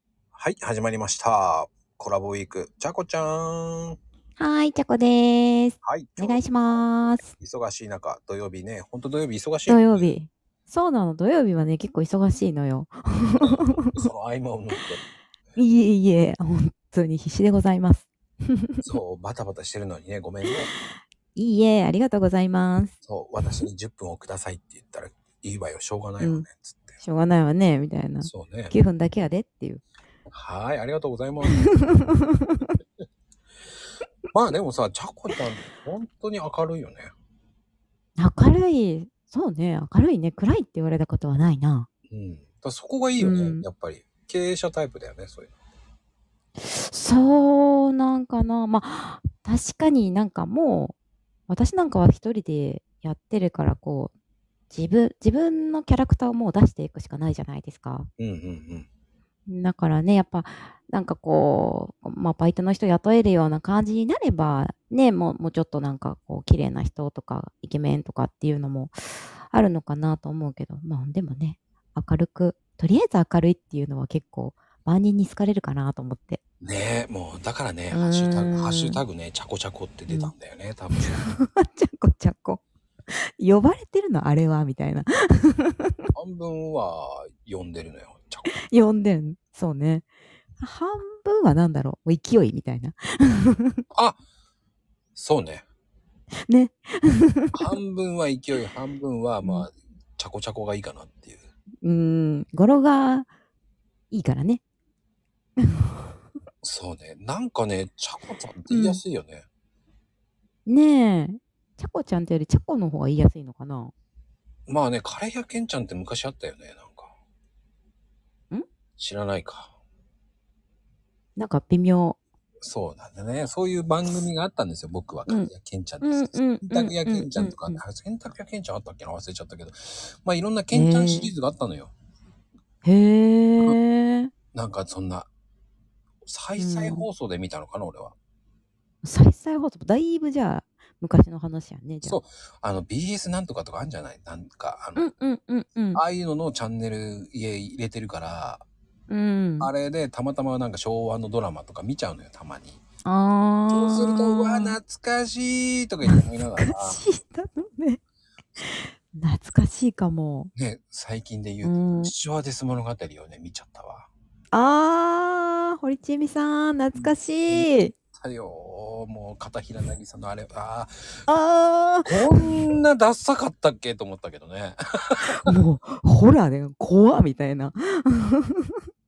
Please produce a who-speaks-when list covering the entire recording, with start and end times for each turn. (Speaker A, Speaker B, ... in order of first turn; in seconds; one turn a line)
Speaker A: 0.3-4.0
Speaker B: 4.4-7.2
Speaker A: 5.8-10.2
Speaker B: 9.7-14.1
Speaker A: 13.4-15.0
Speaker B: 15.6-18.9
Speaker A: 18.8-20.7
Speaker B: 21.3-22.9
Speaker A: 23.0-27.0
Speaker B: 26.2-26.4
Speaker B: 27.0-29.8
Speaker A: 28.2-28.7
Speaker A: 30.3-31.7
Speaker B: 31.5-32.7
Speaker A: 34.3-37.1
Speaker B: 38.2-41.9
Speaker A: 42.1-45.5
Speaker B: 43.2-43.6
Speaker B: 46.6-50.9
Speaker B: 51.5-54.1
Speaker B: 54.7-58.1
Speaker A: 58.2-58.9
Speaker B: 59.5-76.4
Speaker A: 76.6-81.2
Speaker B: 77.9-79.0
Speaker B: 80.1-80.3
Speaker B: 81.0-82.6
Speaker B: 83.4-86.1
Speaker A: 86.1-88.5
Speaker B: 88.5-90.0
Speaker B: 90.6-93.8
Speaker A: 93.9-94.2
Speaker A: 95.1-95.6
Speaker B: 96.5-97.7
Speaker A: 97.5-101.4
Speaker B: 101.8-103.3
Speaker B: 104.1-104.6
Speaker B: 105.6-106.2
Speaker A: 106.6-109.4
Speaker B: 108.7-109.0
Speaker B: 110.7-113.9
Speaker A: 114.7-117.1
Speaker A: 119.0-119.7
Speaker B: 121.3-122.2
Speaker A: 122.6-131.9
Speaker B: 126.0-127.8
Speaker B: 130.7-131.3
Speaker B: 132.8-134.3
Speaker A: 134.5-135.3
Speaker A: 136.2-138.1
Speaker B: 136.6-137.1
Speaker B: 139.0-142.2
Speaker A: 142.0-145.1
Speaker B: 144.9-146.0
Speaker A: 145.9-148.6
Speaker B: 149.1-149.7
Speaker A: 149.6-152.8
Speaker B: 153.0-154.8
Speaker A: 153.7-157.0
Speaker B: 156.1-158.0
Speaker B: 158.6-160.5
Speaker A: 160.5-164.1
Speaker B: 161.6-162.1
Speaker B: 164.5-167.9
Speaker A: 166.9-171.2
Speaker B: 171.3-172.6
Speaker A: 172.0-175.2
Speaker B: 175.4-178.8